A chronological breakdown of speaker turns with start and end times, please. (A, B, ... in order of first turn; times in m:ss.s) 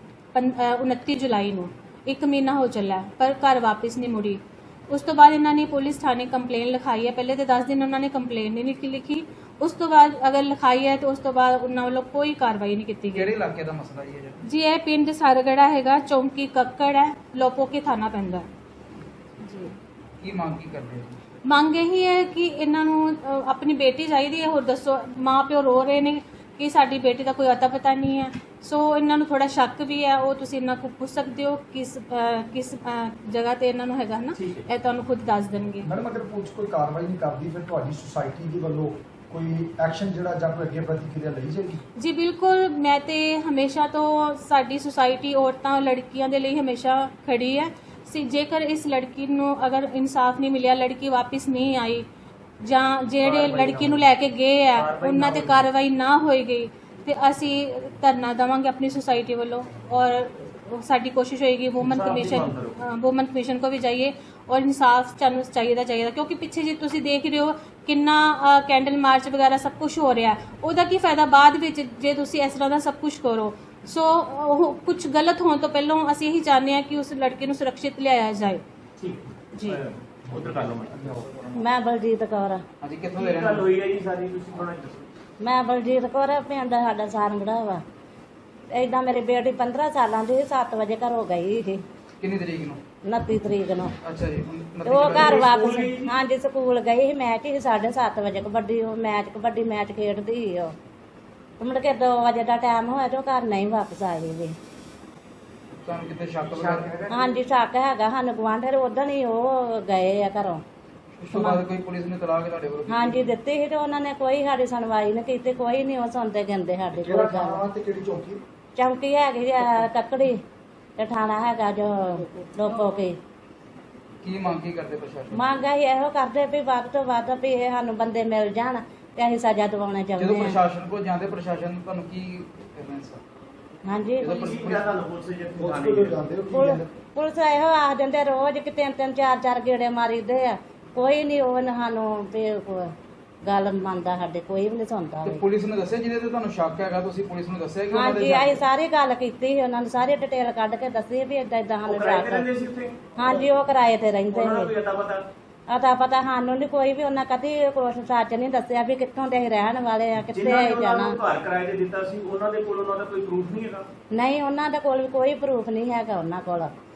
0:00.3-0:13.3 A
0:13.1-0:14.4 B
0:14.4-0:18.5 A
0:19.4-0:19.7 A
0:20.2-0:21.2 B
0:21.4-0:35.9 A
0:35.8-0:41.8 C
0:42.0-0:52.0 A
0:52.6-1:18.6 A
0:53.2-0:54.1 D
0:54.7-0:55.6 D
1:01.8-1:02.7 D
1:19.0-1:21.4 D
1:19.5-1:19.8 A
1:21.5-1:22.6 E
1:22.8-1:23.8 B
1:23.2-1:25.1 D
1:25.4-1:27.8 E
1:28.7-1:31.8 E
1:32.2-1:32.8 B
1:33.0-1:33.9 E
1:34.0-1:35.6 B
1:34.8-1:40.7 E
1:35.3-1:36.1 D
1:41.6-1:44.5 E
1:45.8-1:47.1 B
1:46.6-1:47.0 D
1:47.1-1:50.6 E
1:51.2-1:53.2 B
1:51.3-1:51.6 E
1:52.9-1:57.6 E
1:56.9-1:58.4 C
1:58.8-2:00.4 E
2:01.0-2:03.2 E
2:04.2-2:05.4 B
2:05.3-2:10.6 E
2:10.2-2:13.2 B
2:13.8-2:14.4 E
2:14.2-2:15.1 B
2:14.4-2:16.2 D
2:15.5-2:16.9 C
2:16.5-2:22.9 E
2:23.4-2:25.4 E
2:25.2-2:28.6 B
2:27.9-2:32.5 E
2:31.9-2:33.4 D
2:33.2-2:34.7 E
2:34.4-2:35.2 D
2:35.7-2:41.2 E
2:40.3-2:43.8 D
2:44.1-2:46.7 E